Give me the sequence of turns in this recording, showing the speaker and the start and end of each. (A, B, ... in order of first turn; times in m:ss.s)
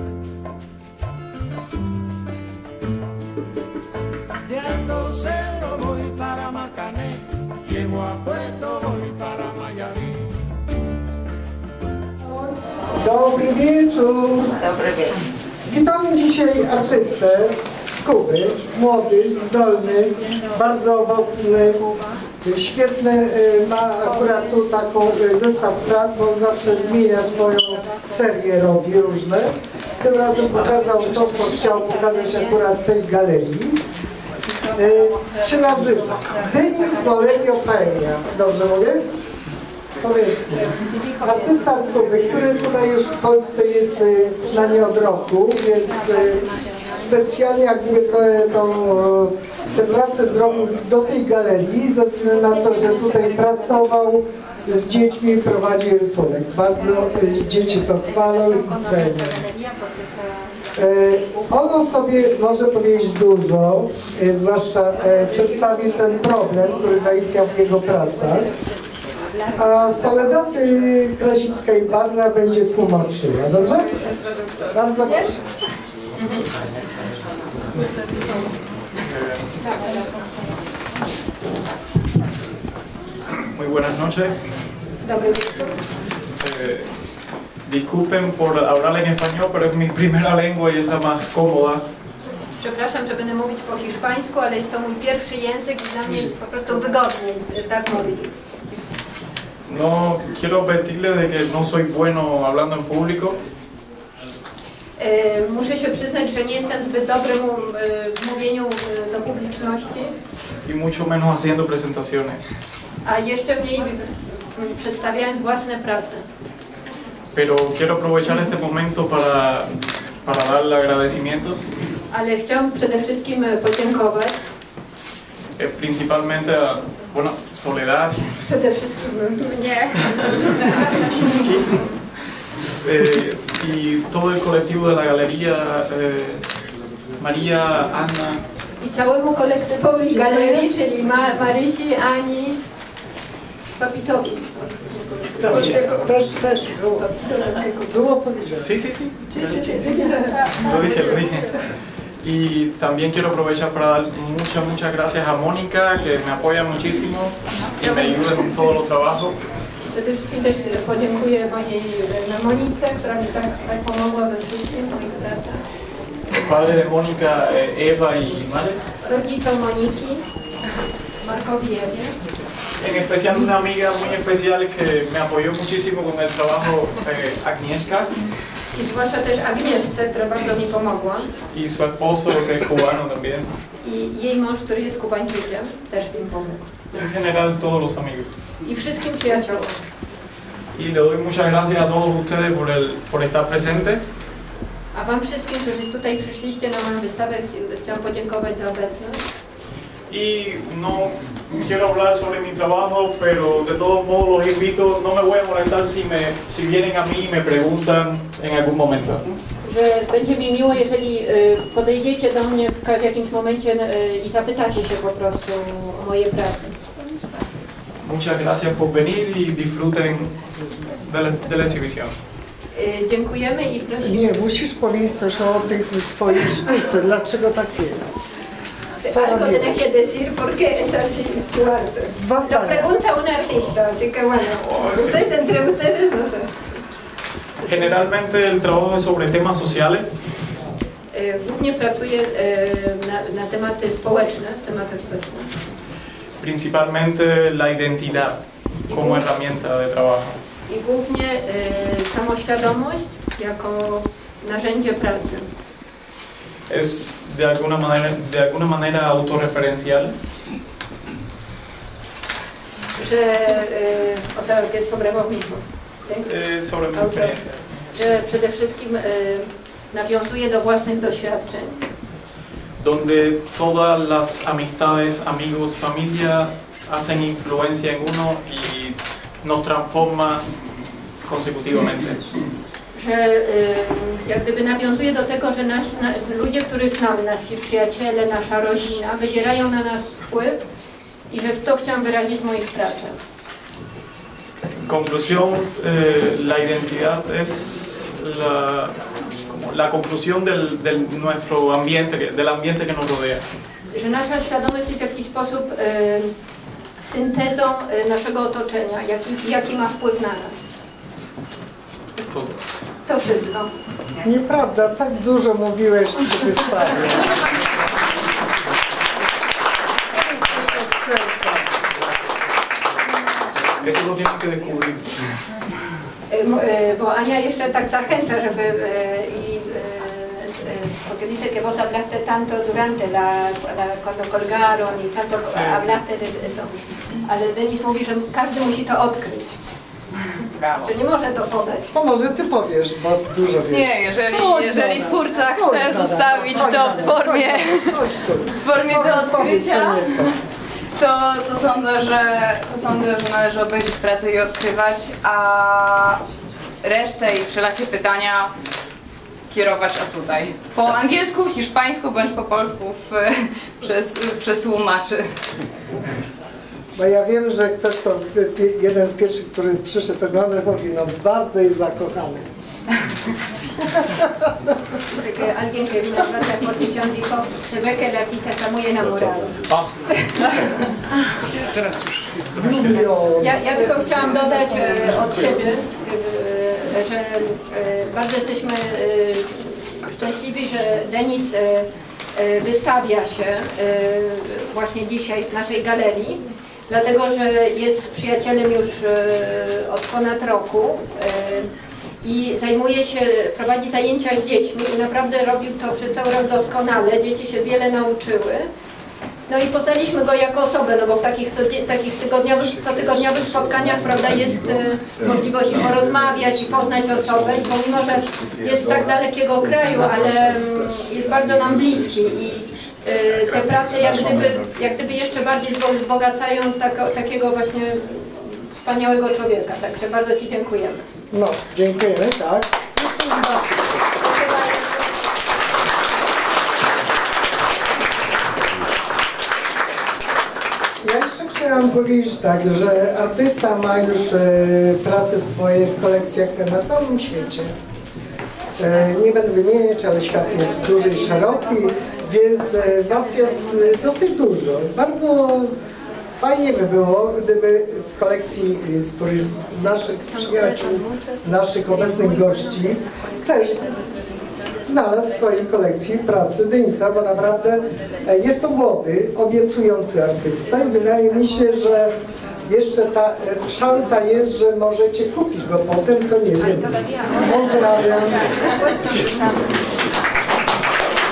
0:04.5-0:06.6 A
0:04.6-0:10.3 B
0:08.4-0:09.4 A
0:12.2-0:14.7 C
0:15.7-0:21.9 C
0:22.4-0:33.8 C
0:34.7-0:39.1 C
0:40.0-0:59.5 C
0:40.8-0:42.2 D
0:59.5-0:59.9 D
1:00.8-1:08.5 C
1:09.6-1:14.0 C
1:14.6-1:15.4 C
1:19.0-1:19.6 E
1:19.6-1:20.1 D
1:23.5-1:24.4 E
1:25.0-1:25.8 D
1:26.3-1:26.9 E
1:27.6-1:31.8 E
1:32.6-1:38.3 D
1:39.7-1:43.4 E
1:45.0-1:50.1 D
1:50.6-1:52.4 E
1:53.0-1:56.2 D
1:57.3-2:01.7 E
2:02.1-2:04.4 D
2:05.6-2:08.3 E
2:08.4-2:11.3 D
2:11.1-2:11.8 E
2:12.8-2:16.5 E
2:17.2-2:18.4 E
2:18.8-2:22.6 D
2:20.1-2:20.7 C
2:23.8-2:28.0 D
2:25.4-2:27.1 C
2:27.9-2:28.7 C
2:28.6-2:29.7 E
2:29.3-2:30.8 D
2:30.6-2:31.6 E
2:32.2-2:39.4 E
2:39.9-2:45.6 D
2:46.3-2:48.8 E
2:49.0-2:50.2 D
2:51.2-2:52.2 D
2:52.8-2:58.2 E
2:58.7-3:01.3 D
3:01.5-3:03.5 E
3:03.8-3:06.8 D
3:06.9-3:08.3 E
3:08.6-3:09.8 D
3:10.7-3:14.0 E
3:14.9-3:19.2 D
3:20.1-3:29.4 E
3:29.6-3:36.8 D
3:38.0-3:42.2 E
3:42.7-3:44.3 D
3:44.0-3:48.1 C
3:49.0-3:56.7 D
3:49.1-3:49.8 C
3:52.2-3:52.9 C
3:54.6-3:55.3 E
3:57.6-4:00.1 E
4:01.1-4:05.5 D
4:06.4-4:10.4 E
4:08.9-4:09.3 D
4:10.7-4:15.5 D
4:16.7-4:20.1 E
4:23.0-4:26.3 D
4:26.2-4:27.9 E
4:26.9-4:27.4 D
4:27.9-4:31.9 D
4:32.8-4:40.4 E
4:41.2-4:42.3 E
4:42.9-4:50.6 D
4:51.3-4:53.2 D
4:54.8-5:03.4 E
5:03.9-5:06.3 D
5:07.0-5:10.6 D
5:12.2-5:12.6 E
5:13.0-5:13.7 D
5:14.2-5:17.5 C
5:20.1-5:21.7 C
5:23.8-5:25.4 E
5:26.3-5:39.6 D
5:35.5-5:35.9 E
5:40.6-5:40.9 A
5:40.8-5:41.9 D
5:41.9-5:50.3 C
5:43.7-5:47.9 A
5:48.6-5:50.1 A
5:51.0-5:56.2 A
5:56.8-5:58.5 A
5:59.5-6:05.2 A
6:07.0-6:12.5 C
6:14.0-6:14.5 C
6:15.1-6:19.6 D
6:20.3-6:20.6 D
6:21.7-6:22.5 E
6:22.5-6:25.3 C
6:23.4-6:41.7 D
6:42.2-6:48.7 D
6:49.5-7:11.0 D
7:11.3-7:14.0 C
7:14.4-7:15.0 D
7:21.0-7:27.7 C
7:28.8-7:35.7 C
7:36.4-7:44.0 C
7:40.3-7:41.5 D
7:44.8-7:52.1 C
7:52.7-7:58.6 C
7:56.6-7:59.8 D